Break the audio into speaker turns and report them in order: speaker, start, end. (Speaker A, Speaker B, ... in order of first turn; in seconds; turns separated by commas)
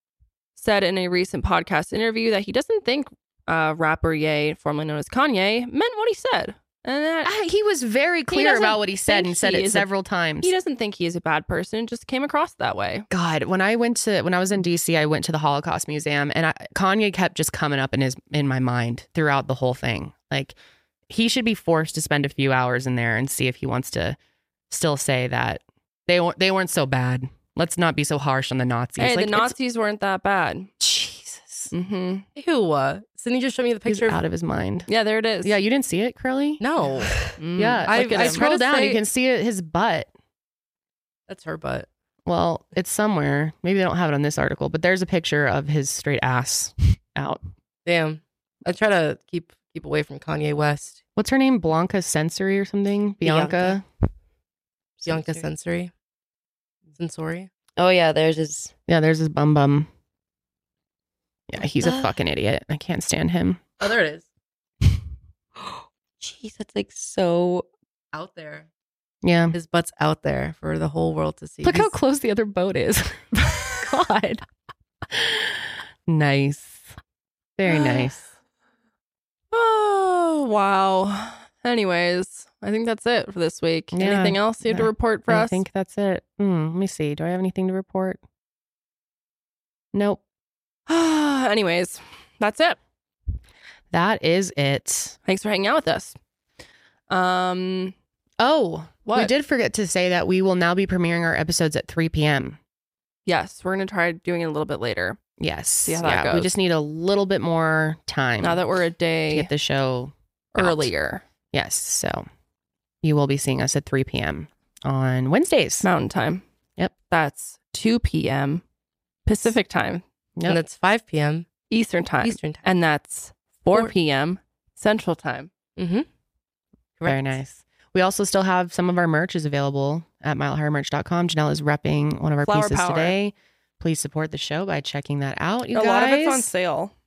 Speaker A: 0.6-7.3, Speaker B: 7.2-10.5, Speaker A: 8.3-9.9, Speaker A: 10.4-13.1, Speaker B: 13.1-20.6, Speaker B: 21.1-24.2, Speaker B: 24.7-29.6, Speaker A: 29.0-30.7, Speaker B: 30.8-31.7, Speaker A: 31.7-32.2, Speaker C: 32.4-34.2, Speaker B: 33.9-34.9, Speaker A: 34.9-35.6, Speaker B: 35.4-36.6, Speaker C: 36.6-39.0, Speaker A: 37.4-38.5, Speaker B: 37.6-40.1, Speaker C: 41.3-41.9, Speaker B: 42.3-47.4, Speaker C: 47.9-51.0, Speaker B: 51.2-53.8, Speaker D: 53.2-53.8, Speaker D: 55.0-55.5, Speaker C: 55.0-55.9, Speaker C: 56.9-57.5, Speaker D: 57.8-58.7, Speaker B: 58.9-59.9, Speaker B: 61.5-63.6, Speaker D: 61.8-62.1, Speaker C: 63.8-64.3, Speaker D: 65.6-67.7, Speaker C: 68.1-68.7, Speaker B: 69.2-69.5, Speaker C: 69.5-72.0, Speaker B: 71.6-74.4, Speaker B: 75.1-76.9, Speaker B: 77.6-78.2, Speaker A: 77.7-78.1, Speaker A: 79.5-85.6, Speaker B: 83.9-88.2, Speaker B: 89.9-90.2, Speaker A: 90.9-92.8, Speaker B: 93.9-95.2, Speaker A: 95.3-96.2, Speaker A: 97.1-97.9, Speaker B: 98.4-102.6, Speaker A: 99.1-99.3, Speaker A: 103.3-105.2, Speaker B: 105.4-108.6, Speaker A: 105.8-106.5, Speaker A: 108.4-109.5, Speaker B: 109.3-110.9, Speaker A: 110.5-111.2, Speaker B: 111.5-112.3, Speaker B: 113.0-115.9, Speaker A: 115.8-116.4, Speaker A: 117.1-118.6, Speaker A: 119.3-120.0, Speaker C: 120.5-121.5, Speaker A: 121.7-125.5, Speaker C: 122.2-122.6, Speaker C: 125.8-126.1, Speaker C: 127.0-127.4, Speaker B: 127.0-136.5, Speaker A: 132.4-133.2, Speaker A: 135.7-136.9